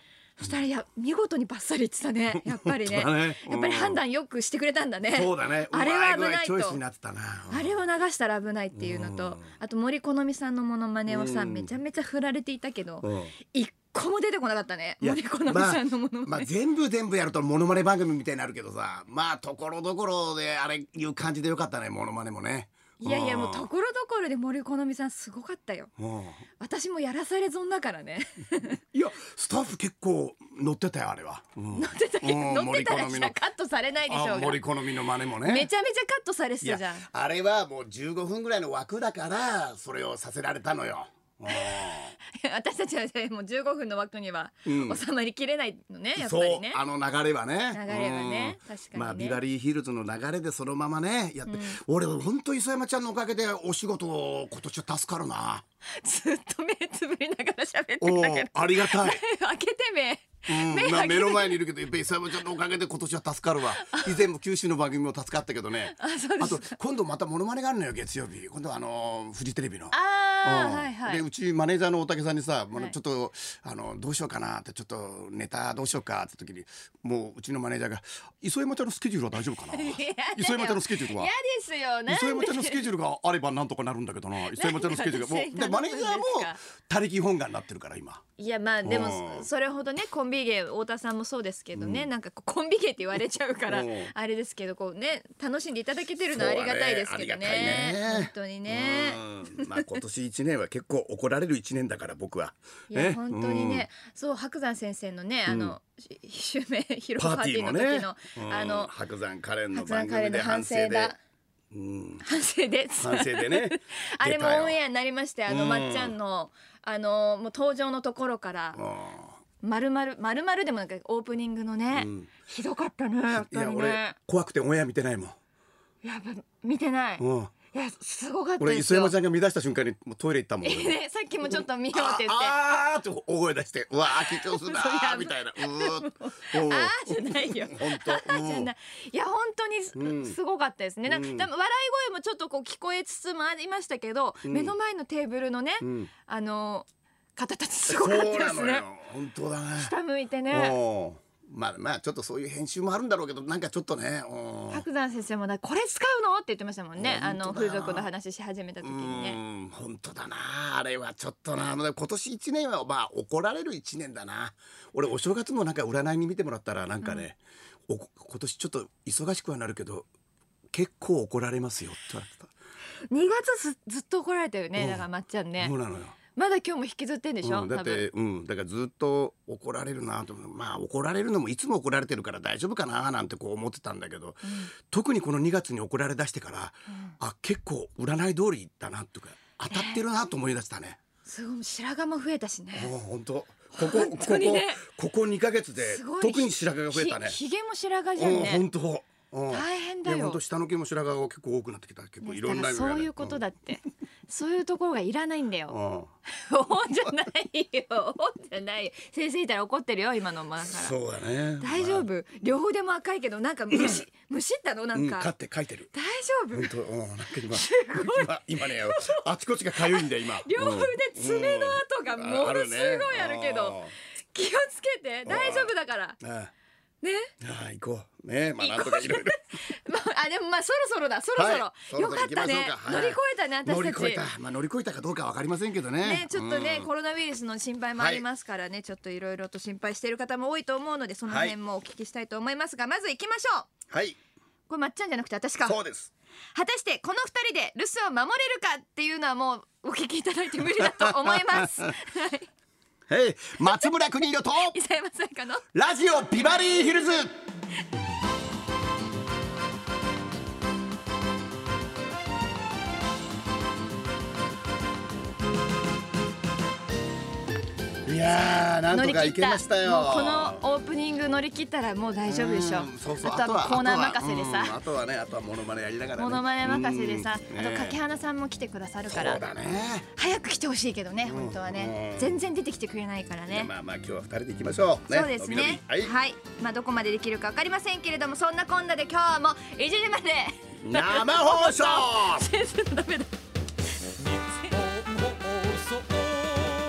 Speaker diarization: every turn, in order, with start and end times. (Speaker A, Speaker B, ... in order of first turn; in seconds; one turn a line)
Speaker A: 0.4-6.8
Speaker B: 2.3-4.0
Speaker B: 5.1-7.8
Speaker A: 7.5-16.5
Speaker B: 8.7-9.5
Speaker B: 11.1-11.7
Speaker B: 13.0-13.3
Speaker B: 15.0-23.7
Speaker A: 23.0-25.9
Speaker B: 26.0-26.4
Speaker A: 26.6-28.8
Speaker B: 28.9-33.4
Speaker A: 31.8-34.6
Speaker B: 34.1-35.7
Speaker A: 35.4-37.1
Speaker B: 36.6-42.1
Speaker A: 41.5-46.8
Speaker B: 44.6-45.0
Speaker B: 46.1-55.6
Speaker A: 47.7-49.4
Speaker A: 51.5-51.8
Speaker A: 55.9-61.6
Speaker B: 58.0-59.2
Speaker B: 60.5-81.3
Speaker A: 63.8-64.2
Speaker A: 65.9-66.8
Speaker A: 69.9-71.2
Speaker A: 79.7-82.8
Speaker B: 82.1-88.2
Speaker A: 84.5-86.6
Speaker A: 88.4-100.0
Speaker B: 88.8-89.5
Speaker B: 91.8-92.1
Speaker B: 93.7-94.1
Speaker B: 96.3-103.9
Speaker A: 102.9-108.9
Speaker B: 105.5-105.8
Speaker B: 107.2-111.1
Speaker A: 109.7-111.2
Speaker B: 111.7-112.2
Speaker A: 112.2-118.8
Speaker B: 113.0-114.8
Speaker B: 115.5-116.2
Speaker B: 118.7-119.4
Speaker A: 119.6-124.2
Speaker B: 121.9-122.3
Speaker B: 123.3-125.4
Speaker A: 126.0-129.1
Speaker B: 127.2-127.5
Speaker B: 128.6-138.7
Speaker A: 130.6-132.6
Speaker A: 134.2-148.8
Speaker B: 139.9-140.4
Speaker B: 141.1-141.5
Speaker B: 144.4-144.7
Speaker B: 145.8-146.1
Speaker B: 147.9-149.9
Speaker A: 149.8-150.8
Speaker B: 150.5-154.8
Speaker A: 154.7-159.4
Speaker B: 156.9-158.1
Speaker B: 158.8-170.1
Speaker B: 170.7-172.5
Speaker A: 173.1-175.7
Speaker B: 174.8-175.1
Speaker B: 175.6-176.2
Speaker A: 176.3-178.1
Speaker B: 177.4-191.0
Speaker A: 184.4-184.7
Speaker A: 189.7-190.0
Speaker A: 191.2-192.9
Speaker B: 192.7-197.4
Speaker A: 193.7-194.8
Speaker A: 195.8-198.6
Speaker B: 198.2-203.4
Speaker A: 199.5-200.4
Speaker A: 202.2-205.8
Speaker B: 205.7-206.1
Speaker A: 206.3-210.9
Speaker B: 210.6-212.1
Speaker A: 211.6-215.3
Speaker B: 213.7-214.0
Speaker B: 214.9-215.9
Speaker A: 215.9-216.7
Speaker B: 216.5-223.9
Speaker A: 217.5-219.2
Speaker A: 219.9-223.8
Speaker A: 224.3-226.2
Speaker B: 225.2-226.5
Speaker A: 227.0-227.3
Speaker B: 227.4-229.4
Speaker A: 228.6-234.2
Speaker B: 231.3-236.9
Speaker A: 236.0-243.7
Speaker B: 238.0-238.2
Speaker B: 241.3-241.6
Speaker B: 243.9-244.2
Speaker A: 244.7-245.8
Speaker B: 245.7-246.1
Speaker A: 246.5-252.5
Speaker B: 250.7-251.9
Speaker B: 253.1-254.8
Speaker A: 254.6-255.7
Speaker B: 255.7-257.3
Speaker B: 268.0-270.6
Speaker A: 268.9-274.8
Speaker B: 272.3-278.0
Speaker A: 276.2-279.4
Speaker B: 279.1-280.1
Speaker A: 280.1-283.7
Speaker B: 281.2-282.4
Speaker B: 283.5-286.1
Speaker A: 285.1-293.3
Speaker B: 290.8-292.5
Speaker A: 294.2-295.2